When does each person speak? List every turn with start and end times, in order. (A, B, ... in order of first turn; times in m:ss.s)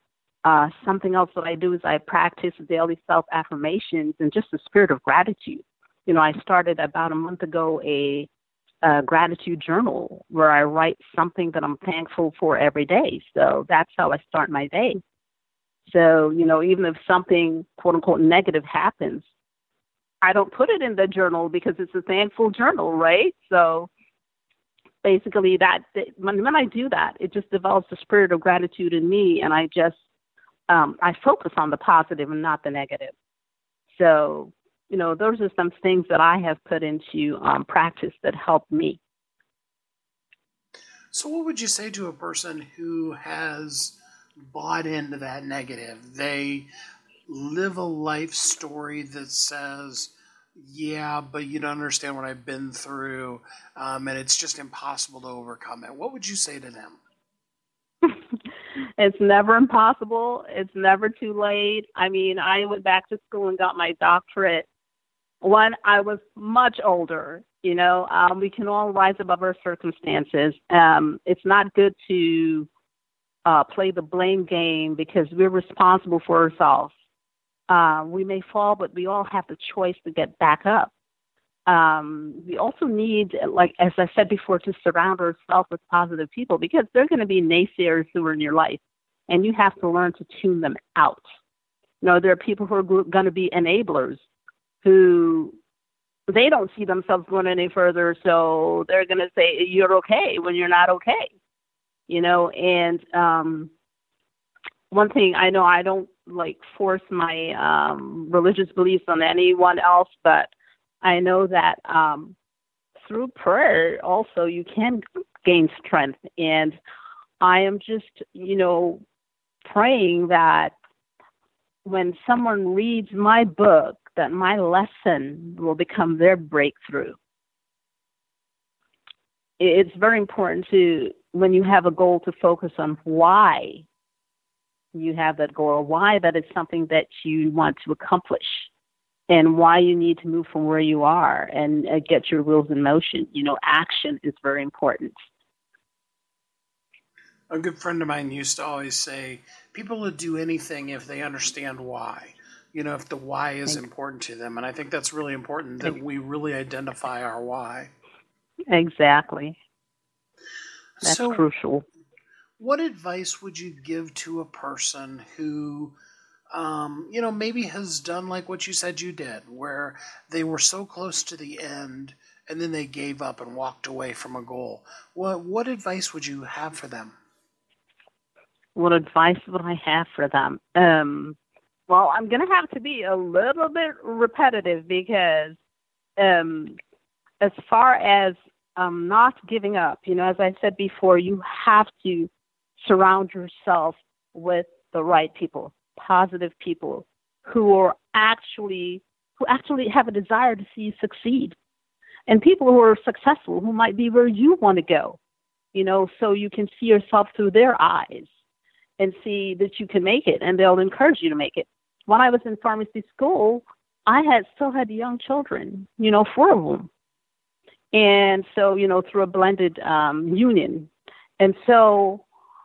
0:00.4-0:08.3 A
0:08.8-0:15.0 A
0:15.9-0:19.2 A
0:20.2-0:23.9 A
0:25.0-0:30.0 A
0:30.7-0:33.1 A
0:34.0-0:39.0 A
0:41.1-0:44.0 B
0:44.5-0:46.7 B
0:47.3-0:57.0 B
0:59.0-1:04.7 A
1:05.4-1:12.7 A
1:13.5-1:16.9 A
1:17.7-1:20.9 A
1:21.7-1:31.2 A
1:32.0-1:34.2 A
1:34.8-1:35.6 A
1:36.3-1:41.3 A
1:42.1-1:43.7 A
1:44.9-1:50.5 A
1:51.0-1:52.4 A
1:53.0-1:56.8 A
1:57.4-1:59.0 A
1:59.7-2:00.7 A
2:01.8-2:07.2 A
2:09.6-2:13.9 A
2:14.9-2:18.7 A
2:19.3-2:25.2 A
2:27.5-2:37.9 B
2:38.7-2:39.6 A
2:41.0-2:41.4 B
2:41.0-2:41.8 A
2:42.6-2:46.0 B
2:46.5-2:57.2 B
2:58.8-3:01.4 A
3:01.9-3:05.6 A
3:06.2-3:06.8 A
3:07.4-3:12.3 A
3:12.8-3:21.6 A
3:22.3-3:25.2 A
3:25.7-3:28.3 A
3:29.0-3:36.9 A
3:37.9-3:42.2 A